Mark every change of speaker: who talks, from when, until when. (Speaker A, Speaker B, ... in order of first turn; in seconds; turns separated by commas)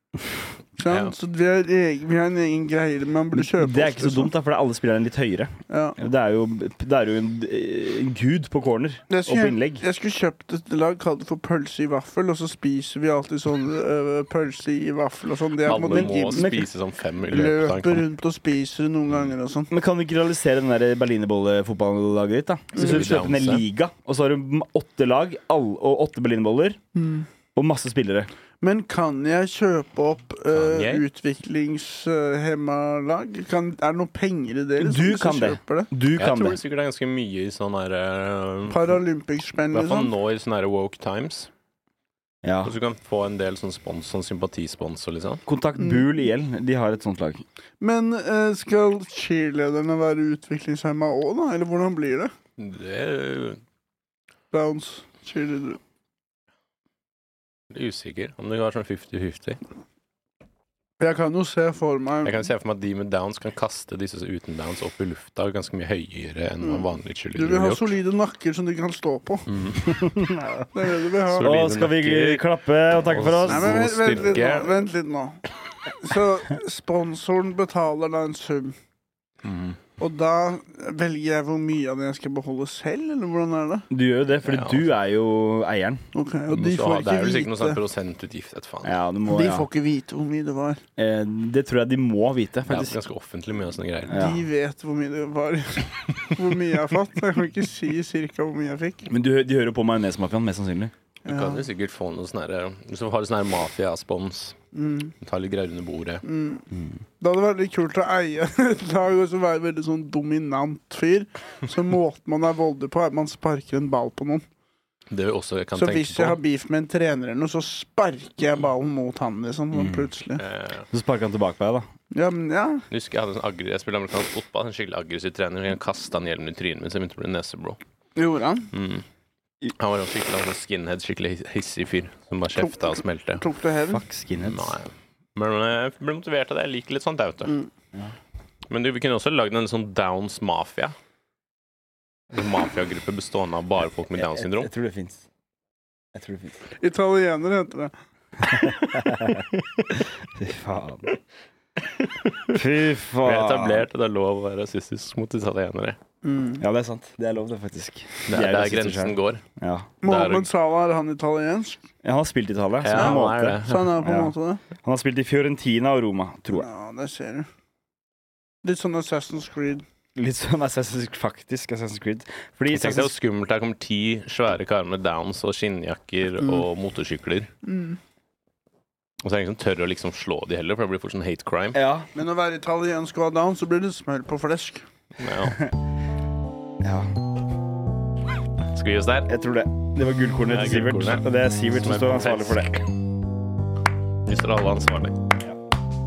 Speaker A: 0.8-4.3, Speaker B: 0.8-1.1, Speaker C: 3.3-9.8, Speaker A: 5.7-6.0, Speaker A: 9.1-16.6, Speaker B: 15.6-18.0, Speaker C: 15.7-16.6, Speaker A: 17.3-19.7, Speaker C: 19.7-26.8, Speaker B: 22.7-23.6, Speaker A: 26.9-27.3, Speaker C: 27.5-28.3, Speaker A: 28.6-35.9, Speaker B: 30.5-31.1, Speaker C: 34.8-36.6, Speaker B: 36.1-38.9, Speaker A: 38.7-40.1, Speaker B: 39.7-41.5, Speaker C: 42.4-42.7, Speaker B: 42.6-45.4, Speaker C: 45.5-47.4, Speaker A: 47.8-52.3, Speaker B: 52.6-53.6, Speaker A: 54.5-55.8, Speaker B: 57.7-59.6, Speaker A: 61.0-62.5, Speaker B: 62.2-67.9, Speaker A: 66.6-69.4, Speaker B: 69.5-69.9, Speaker C: 69.8-70.7, Speaker A: 70.7-71.6, Speaker B: 71.3-72.5, Speaker C: 71.4-74.1, Speaker B: 73.0-74.7, Speaker A: 73.5-75.4, Speaker A: 76.0-78.7, Speaker A: 80.0-83.9, Speaker C: 83.9-86.0, Speaker B: 84.4-84.9, Speaker A: 86.1-87.8, Speaker B: 86.5-89.0, Speaker C: 88.8-89.7, Speaker A: 89.3-90.8, Speaker C: 91.0-93.0, Speaker B: 92.7-94.2, Speaker C: 94.1-94.4, Speaker A: 94.1-99.1, Speaker C: 99.1-100.9, Speaker A: 101.2-101.6, Speaker B: 101.2-104.6, Speaker A: 104.7-105.1, Speaker B: 105.2-106.2, Speaker A: 106.2-106.7, Speaker A: 107.2-114.4, Speaker B: 115.1-116.4, Speaker A: 115.8-120.4, Speaker C: 119.7-120.1, Speaker B: 120.4-120.9, Speaker C: 120.9-121.9, Speaker A: 122.1-122.8, Speaker B: 122.9-127.8, Speaker A: 128.2-128.7, Speaker B: 128.7-129.0, Speaker B: 129.8-133.4, Speaker A: 132.6-134.0, Speaker C: 133.9-134.7, Speaker B: 134.4-137.6, Speaker B: 138.7-140.9, Speaker B: 142.3-144.7, Speaker C: 144.2-145.2, Speaker C: 146.1-146.6, Speaker A: 146.8-147.9, Speaker C: 148.4-151.1, Speaker B: 151.9-152.5, Speaker C: 152.5-153.8, Speaker B: 153.2-156.0, Speaker A: 156.2-156.6, Speaker C: 156.6-159.9, Speaker B: 158.3-159.4, Speaker A: 160.0-161.8, Speaker B: 160.0-160.5, Speaker C: 162.0-166.7, Speaker B: 162.8-163.9, Speaker A: 162.9-164.6, Speaker A: 166.5-167.5, Speaker A: 168.6-169.8, Speaker C: 170.1-173.1, Speaker B: 172.7-177.5, Speaker A: 177.6-178.0, Speaker B: 179.2-181.8, Speaker C: 181.7-182.1, Speaker A: 182.1-184.8, Speaker B: 185.2-185.6, Speaker C: 186.8-187.1, Speaker B: 188.7-189.3, Speaker C: 189.3-192.8, Speaker B: 190.5-191.2, Speaker B: 191.8-192.7, Speaker B: 194.2-195.1